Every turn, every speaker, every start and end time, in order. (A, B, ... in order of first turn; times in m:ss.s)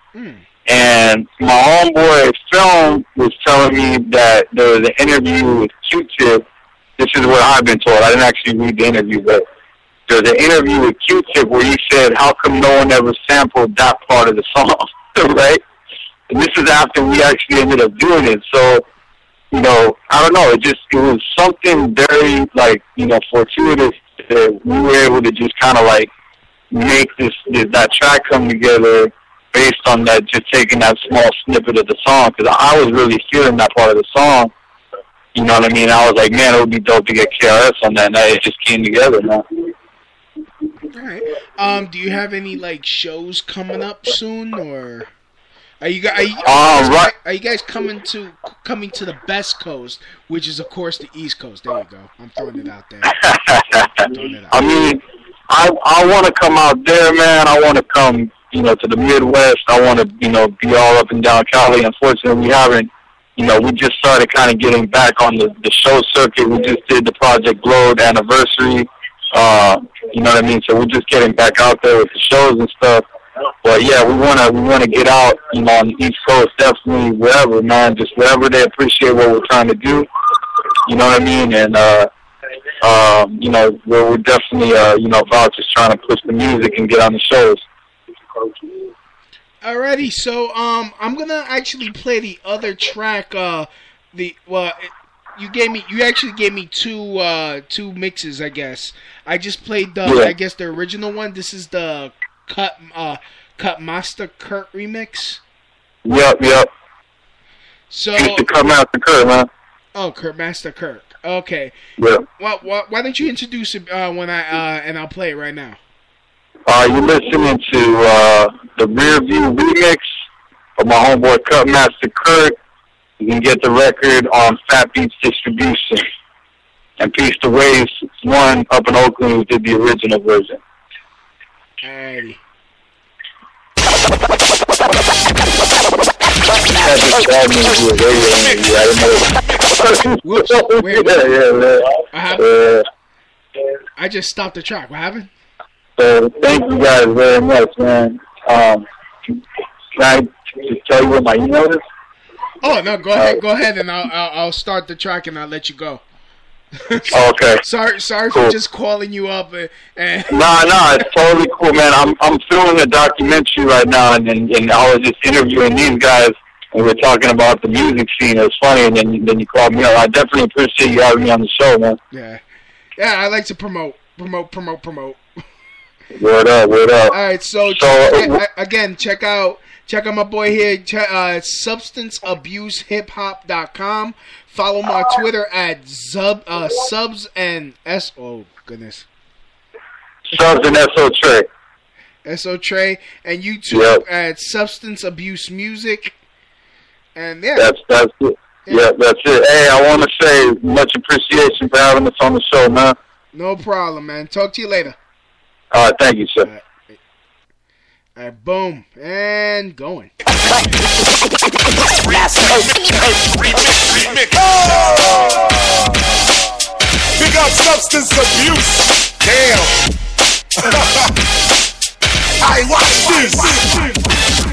0:00.1-0:00.5 A
0:00.7-0:06.4 B
0:07.0-0:09.4 B
0:10.1-0:15.6 B
0:16.3-0:18.8 B
0:19.5-0:26.1 B
0:26.7-0:34.5 B
0:35.4-0:39.4 B
0:40.9-0:45.1 A
0:45.8-0:53.1 A
0:46.4-0:47.1 B
0:53.0-1:13.0 B
0:54.1-0:54.6 A
1:13.6-1:20.1 B
1:20.9-1:22.1 B
1:22.8-1:27.6 B
1:29.6-1:45.4 A
1:40.0-1:40.3 B
1:46.0-1:46.7 B
1:47.9-1:48.5 A
1:48.2-1:49.5 B
1:49.9-1:51.8 A
1:52.0-1:52.2 B
1:52.4-1:55.8 A
1:56.7-2:00.0 B
2:00.8-2:02.6 B
2:03.2-2:06.0 B
2:07.0-2:10.6 B
2:11.8-2:12.4 A
2:16.8-2:22.8 B
2:20.2-2:21.3 A
2:22.1-2:22.5 A
2:24.0-2:25.3 A
2:26.0-2:28.8 B
2:30.0-2:31.8 B
2:32.6-2:36.0 A
2:36.8-2:40.7 A
2:37.1-2:37.6 B
2:40.3-2:52.0 B
2:52.1-2:52.4 A
2:53.0-2:55.2 A
2:56.2-2:57.1 B
2:57.1-3:09.1 A
2:57.7-2:58.4 B
3:10.3-3:11.5 B
3:12.2-3:16.2 A
3:13.7-3:14.0 B
3:17.2-3:17.7 A
3:17.6-3:23.0 B
3:23.3-3:25.0 A
3:25.7-3:26.5 B
3:26.4-3:27.0 A
3:28.2-3:30.1 A
3:34.4-3:35.2 C
3:37.2-3:39.7 C
3:42.4-3:43.9 C